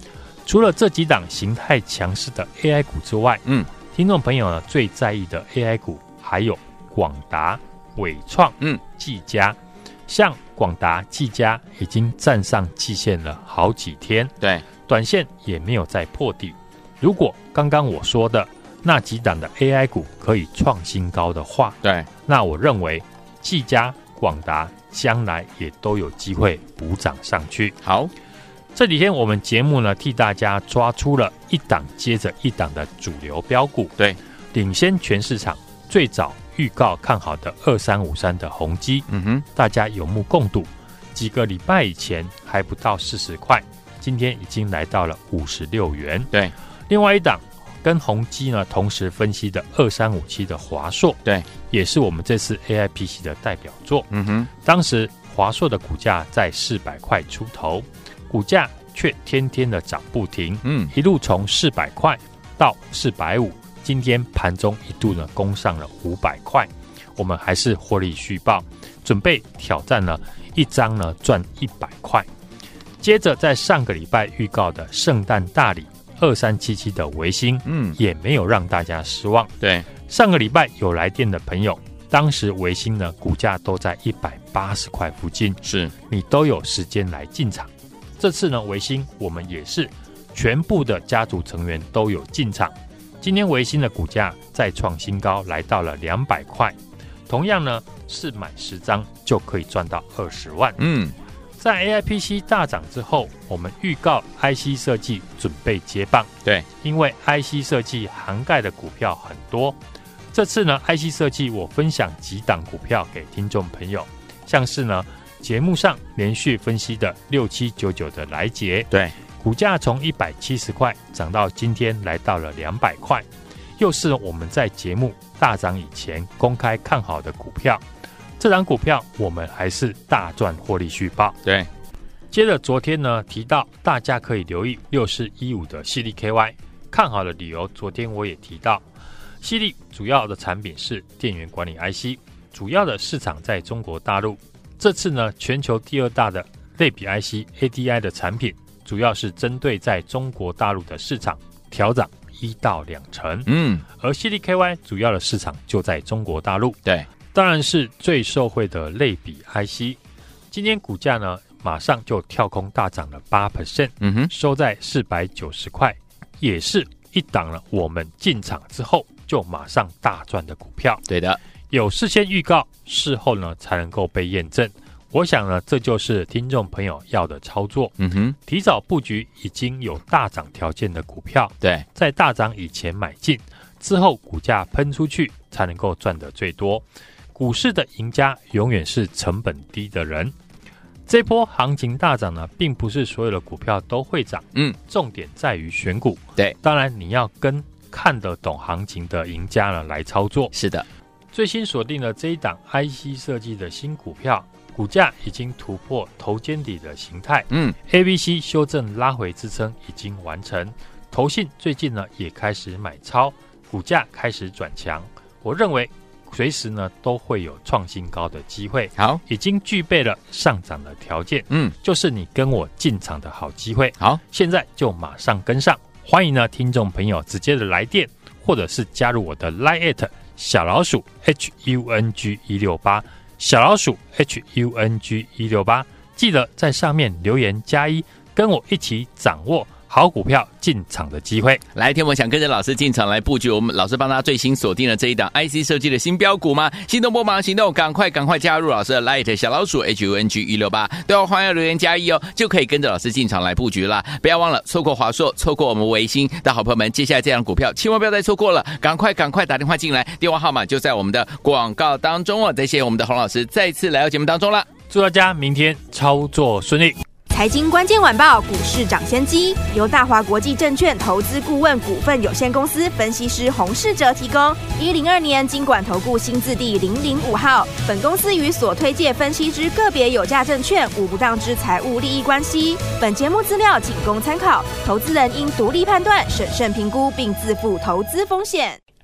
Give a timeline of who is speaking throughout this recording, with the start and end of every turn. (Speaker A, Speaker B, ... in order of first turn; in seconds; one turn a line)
Speaker A: 0.5-14.3
Speaker A: 14.8-27.8
Speaker B: 21.8-22.1
Speaker B: 27.8-28.1
Speaker A: 28.8-33.9
Speaker A: 34.5-46.3
Speaker B: 39.1-39.5
Speaker A: 46.9-54.1
Speaker B: 54.1-54.5
Speaker A: 54.6-72.3
Speaker B: 60.6-60.9
Speaker A: 73.0-79.5
Speaker B: 77.7-78.0
Speaker B: 79.6-79.9
Speaker A: 80.1-96.8
Speaker B: 85.6-85.9
Speaker A: 97.3-100.8
Speaker B: 100.8-101.1
Speaker A: 101.6-109.8
Speaker A: 110.3-123.3
Speaker A: 123.8-127.8
Speaker A: 128.4-131.4
Speaker A: 132.3-138.8
Speaker A: 139.4-156.8
Speaker B: 153.5-153.8
Speaker A: 157.3-160.0
Speaker A: 160.5-171.0
Speaker B: 164.0-164.3
Speaker B: 171.1-171.4
Speaker A: 171.7-186.8
Speaker B: 178.0-178.3
Speaker A: 187.3-190.3
Speaker A: 191.1-200.5
Speaker B: 200.5-200.8
Speaker A: 201.3-241.6
Speaker B: 241.8-264.7
Speaker A: 264.9-267.0
Speaker C: 267.3-288.8